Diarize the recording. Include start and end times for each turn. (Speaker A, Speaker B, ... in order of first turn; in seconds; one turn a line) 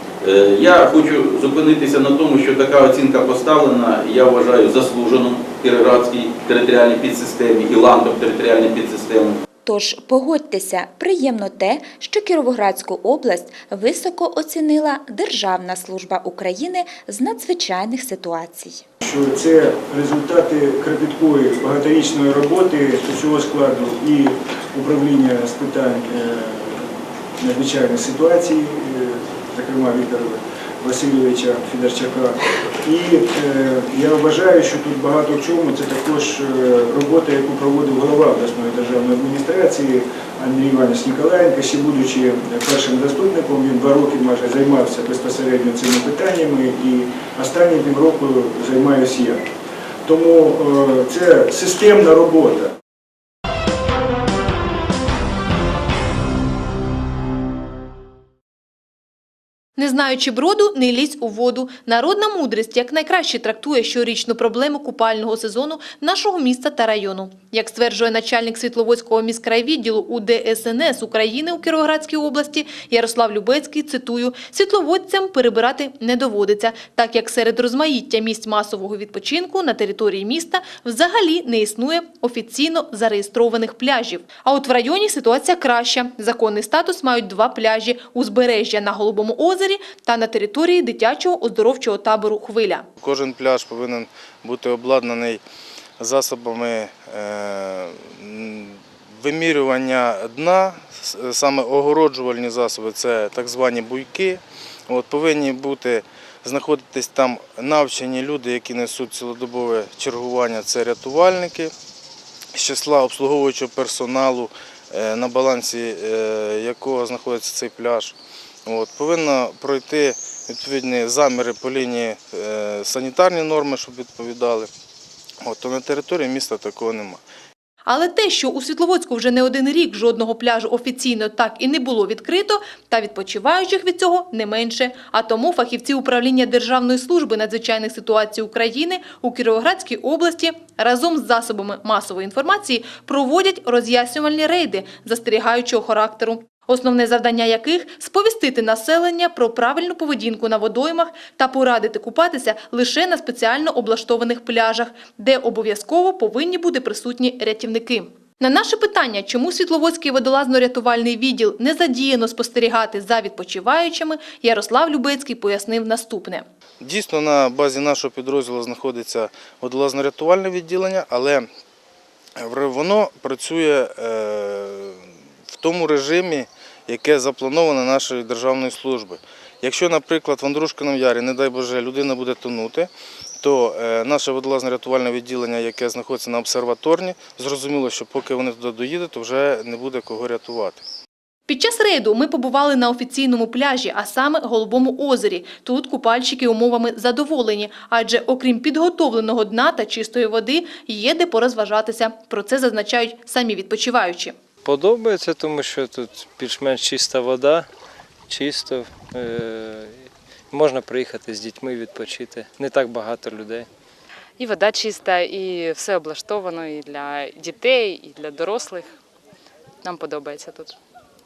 Speaker A: 0.2-9.4
Speaker B: 9.7-18.8
Speaker C: 19.0-49.4
Speaker C: 50.1-52.7
Speaker D: 59.8-92.9
Speaker E: 93.0-95.4
Speaker E: 96.0-111.7
Speaker E: 112.5-118.2
Speaker E: 118.7-124.7
Speaker E: 125.4-127.2
Speaker D: 127.9-166.4
Speaker E: 166.8-171.5
Speaker E: 172.4-182.9
Speaker E: 183.4-190.8
Speaker D: 191.5-204.3
Speaker F: 204.7-207.7
Speaker F: 208.3-210.0
Speaker F: 210.5-213.7
Speaker G: 214.4-218.9
Speaker G: 219.8-220.8